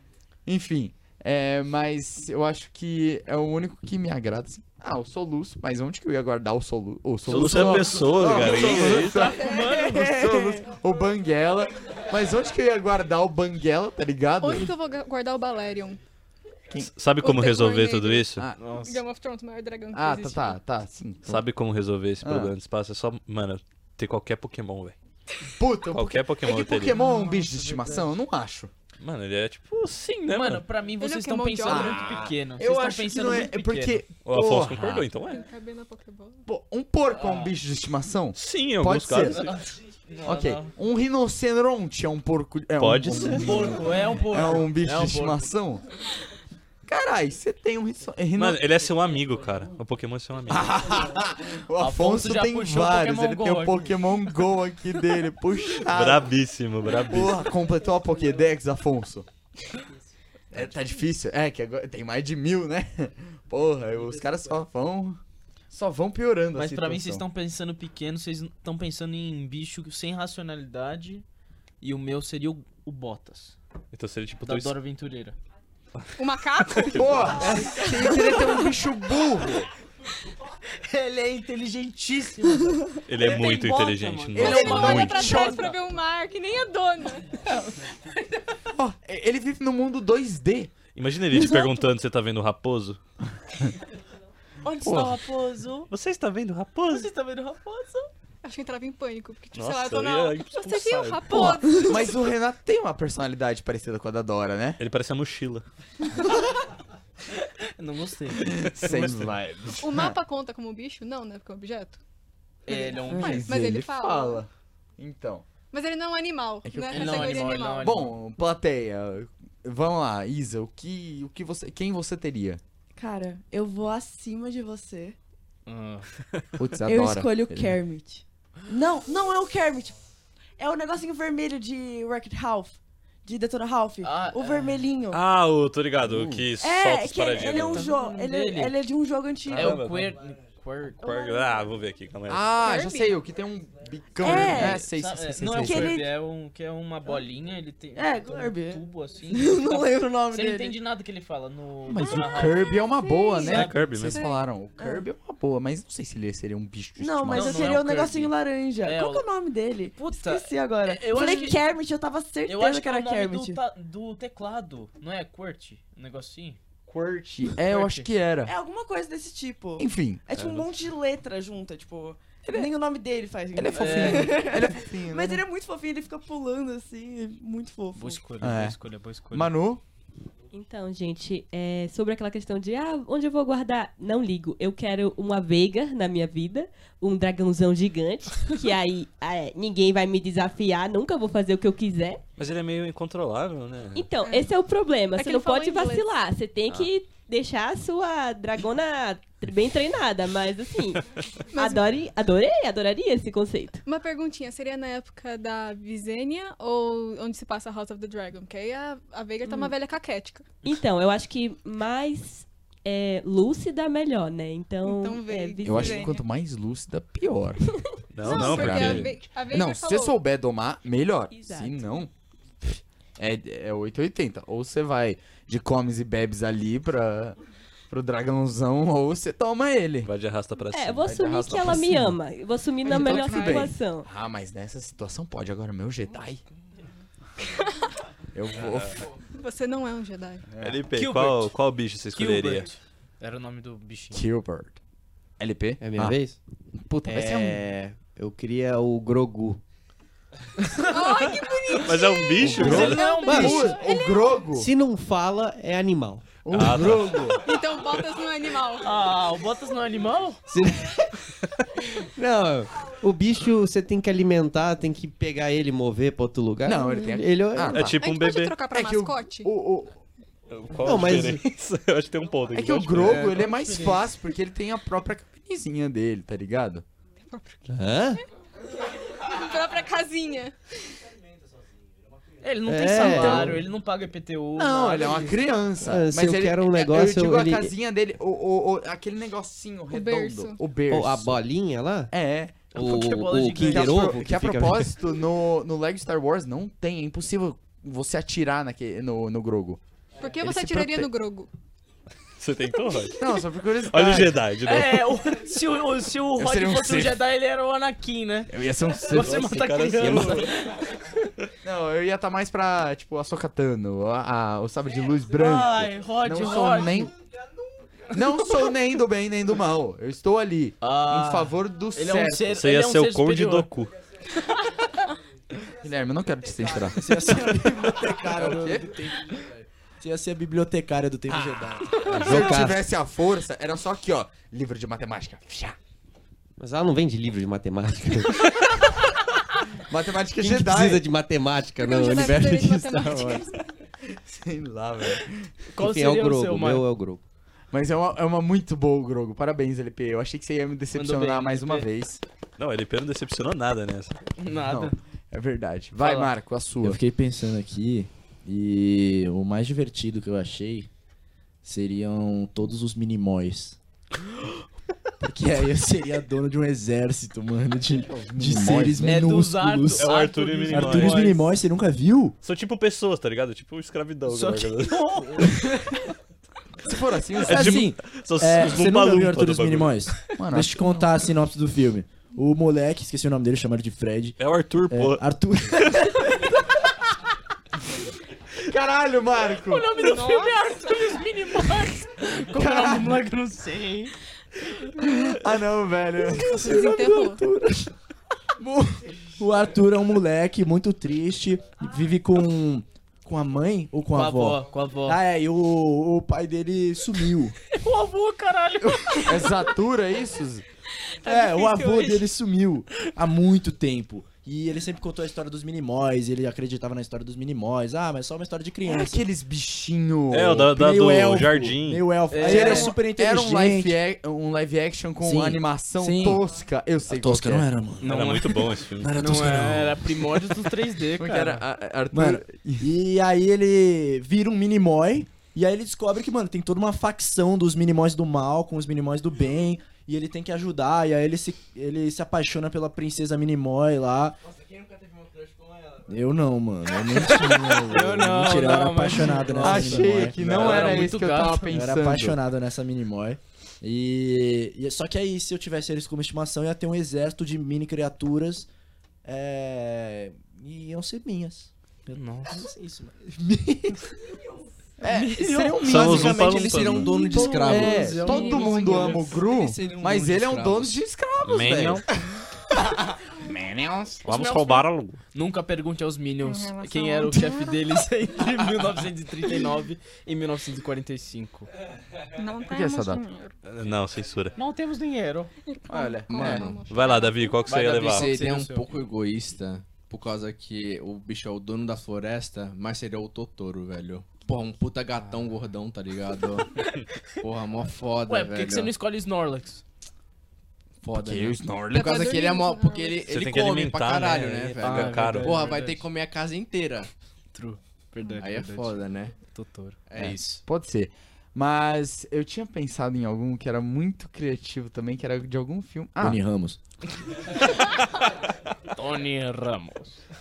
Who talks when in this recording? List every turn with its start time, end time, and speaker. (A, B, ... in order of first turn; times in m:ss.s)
0:00.5-0:14.7 A
0:07.3-0:09.3 B
0:07.3-0:10.3 C
0:09.9-0:10.6 D
0:14.4-0:16.0 E
0:16.8-0:18.5 B
0:17.2-0:20.6 E
0:18.3-0:18.6 A
0:18.6-0:19.0 C
0:19.9-0:21.4 A
0:21.3-0:25.0 B
0:22.2-0:22.5 A
0:25.6-0:28.7 A
0:25.9-0:27.0 B
0:27.3-0:28.0 C
0:29.0-0:30.6 B
0:30.2-0:34.0 C
0:31.0-0:32.0 E
0:31.6-0:35.1 A
0:34.2-0:35.5 B
0:35.2-0:36.4 E
0:36.5-0:39.6 A
0:37.1-0:37.5 C
0:38.4-0:39.6 B
0:39.3-0:40.7 C
0:40.2-0:45.8 A
0:42.8-0:43.8 B
0:43.2-0:45.5 C
0:46.9-0:48.6 A
0:48.4-0:50.9 B
0:50.5-0:56.3 A
0:51.8-0:54.0 C
0:55.9-0:57.5 B
0:57.0-0:59.3 A
1:00.5-1:05.2 A
1:05.7-1:07.2 A
1:06.6-1:11.2 C
1:11.8-1:13.6 C
1:13.9-1:14.8 B
1:14.4-1:15.4 C
1:16.2-1:17.2 E
1:16.8-1:17.3 B
1:16.8-1:19.7 A
1:17.4-1:18.2 C
1:18.0-1:18.6 E
1:20.7-1:25.8 C
1:23.1-1:25.4 B
1:24.4-1:25.6 A
1:24.4-1:27.3 E
1:27.4-1:28.6 C
1:28.7-1:30.7 A
1:31.0-1:33.0 B
1:34.6-1:35.9 C
1:34.9-1:35.2 A
1:35.9-1:37.1 B
1:36.9-1:38.1 C
1:38.4-1:42.1 E
1:39.6-1:41.6 B
1:41.3-1:44.8 A
1:44.8-1:45.6 B
1:47.8-1:48.5 C
1:48.4-1:50.2 A
1:48.8-1:49.2 B
1:49.8-1:52.0 E
1:52.7-1:53.4 C
1:53.1-1:55.5 A
1:53.2-1:54.4 E
1:55.7-1:57.9 E
1:56.6-2:02.6 A
1:56.9-1:58.2 C
2:03.0-2:05.2 D
2:05.7-2:06.1 C
2:06.6-2:07.8 A
2:06.8-2:10.0 D
2:10.6-2:15.2 D
2:14.0-2:14.8 C
2:15.1-2:17.9 B
2:16.0-2:16.5 A
2:16.6-2:19.8 D
2:17.5-2:18.8 C
2:19.5-2:20.2 B
2:19.5-2:21.1 C
2:21.0-2:22.5 B
2:21.1-2:21.4 D
2:22.3-2:26.0 A
2:22.6-2:23.2 E
2:24.2-2:24.9 D
2:24.3-2:32.8 C
2:25.6-2:26.1 D
2:28.0-2:30.8 D
2:31.9-2:37.8 A
2:33.0-2:33.4 E
2:33.4-2:33.8 C
2:33.5-2:34.2 B
2:34.1-2:34.4 E
2:34.8-2:35.1 D
2:37.0-2:43.6 D
2:37.3-2:39.2 C
2:40.0-2:41.6 C
2:42.5-2:46.6 C
2:46.9-2:48.5 A
2:47.6-2:48.1 C
2:48.4-2:58.3 D
2:49.8-2:50.2 A
2:52.4-2:52.7 A
2:53.5-2:55.4 A
2:53.7-2:54.4 C
2:57.9-2:59.5 C
2:58.4-2:58.8 A
2:59.3-2:59.8 A
3:00.5-3:12.2 F
3:12.4-3:14.1 B
3:13.9-3:23.8 F
3:14.2-3:14.5 E
3:15.2-3:16.1 E
3:21.5-3:21.8 E
3:23.8-3:30.5 E
3:30.6-3:36.2 F
3:34.8-3:36.2 E
3:35.6-3:42.1 A
3:38.1-3:39.2 B
3:38.2-3:40.2 E
3:41.3-3:41.8 F
3:42.6-3:47.4 A
3:47.9-3:50.1 A
3:50.0-3:51.1 B
3:50.7-3:54.1 F
3:51.0-3:52.2 A
3:52.8-3:56.4 A
3:52.9-3:53.7 E
3:58.3-3:59.1 A
3:59.4-4:00.4 E
4:00.5-4:00.8 A
4:00.6-4:02.7 B
4:00.9-4:01.5 C
4:02.1-4:04.2 C
4:04.1-4:04.8 A
4:05.4-4:06.2 A
4:05.8-4:06.4 G
4:06.8-4:07.6 A
4:07.1-4:07.9 C
4:07.1-4:09.6 G
4:10.8-4:14.3 E
4:11.7-4:13.3 B
4:12.4-4:14.7 A
4:12.6-4:13.8 C
4:13.3-4:13.7 G
4:14.5-4:16.3 G
4:16.4-4:17.5 A
4:16.5-4:17.4 B
4:17.4-4:18.9 E
4:18.8-4:20.4 C
4:20.5-4:20.8 G
4:22.2-4:27.9 G
4:26.6-4:28.0 A
4:27.7-4:28.6 B
4:28.0-4:29.5 E
4:28.7-4:30.0 A
4:30.5-4:33.4 B
4:30.8-4:31.4 G
4:32.5-4:36.8 A
4:33.0-4:34.0 C
4:37.2-4:37.7 E
4:37.7-4:38.2 G
4:39.2-4:40.6 E
4:42.4-4:45.4 C
4:42.7-4:43.6 G
4:43.0-4:43.5 A
4:44.6-4:51.4 A
4:45.8-4:47.8 G
4:49.9-4:50.6 E
4:50.9-4:52.1 G
4:52.1-4:52.7 A
4:52.7-4:54.2 C
4:52.7-4:55.0 G
4:53.5-4:59.8 A
5:00.2-5:01.5 E
5:00.4-5:01.1 A
5:02.4-5:03.3 B
5:03.2-5:04.4 A
5:03.9-5:05.2 B
5:04.7-5:08.6 C
5:06.4-5:07.2 A
5:08.5-5:09.4 A
5:09.1-5:11.3 C
5:09.1-5:10.6 B
5:11.6-5:17.1 A
5:15.3-5:17.1 C
5:18.1-5:22.6 A
5:20.8-5:23.7 C
5:22.5-5:23.9 B
5:25.7-5:29.3 A
5:26.9-5:32.5 H
5:31.3-5:35.8 A
5:32.1-5:32.9 G
5:36.6-5:38.7 G
5:39.9-5:41.0 A
5:40.4-5:43.5 G
5:41.8-5:43.6 E
5:44.1-5:45.5 A
5:45.7-5:46.8 C
5:45.8-5:47.2 G
5:47.7-5:52.2 A
5:50.9-5:51.9 C
5:52.6-5:54.3 B
5:54.4-5:55.0 C
5:54.6-5:57.0 A
5:56.0-5:56.3 C
5:56.8-6:00.9 H
6:01.6-6:03.8 H
6:05.2-6:10.1 H
6:07.9-6:09.2 A
6:09.0-6:11.5 C
6:10.0-6:11.3 B
6:10.7-6:12.4 H
6:12.4-6:15.6 B
6:14.3-6:16.0 C
6:16.8-6:17.9 A
6:17.4-6:20.0 B
6:17.5-6:26.6 H
6:20.4-6:20.9 A
6:24.4-6:26.3 B
6:28.6-6:29.9 A
6:29.6-6:34.1 C
6:30.0-6:31.1 E
6:32.5-6:33.2 A
6:35.0-6:36.8 A
6:36.3-6:37.5 E
6:36.4-6:37.9 H
6:39.4-6:47.6 H
6:44.1-6:45.2 C
6:47.7-6:49.5 C
6:49.2-6:50.6 A
6:51.2-6:52.3 E
6:51.2-6:59.2 H
6:58.8-7:00.8 A
7:00.3-7:02.1 B
7:00.7-7:04.0 H
7:02.3-7:03.0 C
7:02.4-7:07.7 A
7:05.2-7:06.4 H
7:07.1-7:10.0 H
7:08.0-7:11.6 C
7:08.0-7:09.2 B
7:11.2-7:12.9 A
7:12.1-7:24.4 H
7:26.0-7:31.1 H
7:27.1-7:31.7 C
7:29.6-7:32.4 A
7:31.7-7:38.7 H
7:39.2-7:44.1 H
7:42.1-7:42.7 C
7:45.0-7:52.2 A
7:45.1-7:46.0 C
7:45.8-7:47.2 B
7:45.9-7:51.0 I
7:47.2-7:49.4 C
7:48.3-7:49.2 E
7:51.4-7:52.1 B
7:52.9-7:54.3 A
7:54.2-7:55.2 B
7:54.3-8:01.7 C
7:56.4-7:58.0 E
8:02.4-8:03.5 E
8:02.7-8:03.2 A
8:03.6-8:04.6 B
8:04.6-8:05.5 C
8:05.7-8:07.6 E
8:05.9-8:06.7 A
8:06.3-8:06.9 I
8:06.9-8:08.3 B
8:07.7-8:08.9 C
8:07.7-8:16.8 I
8:17.4-8:18.9 I
8:18.3-8:19.8 C
8:21.0-8:21.3 H
8:21.1-8:22.2 A
8:21.1-8:27.1 I
8:21.9-8:23.3 E
8:23.3-8:25.7 B
8:24.8-8:26.1 C
8:27.5-8:30.6 C
8:28.4-8:29.4 I
8:30.1-8:30.6 I
8:30.2-8:36.4 A
8:36.2-8:36.8 H
8:37.6-8:38.0 C
8:38.9-8:40.2 C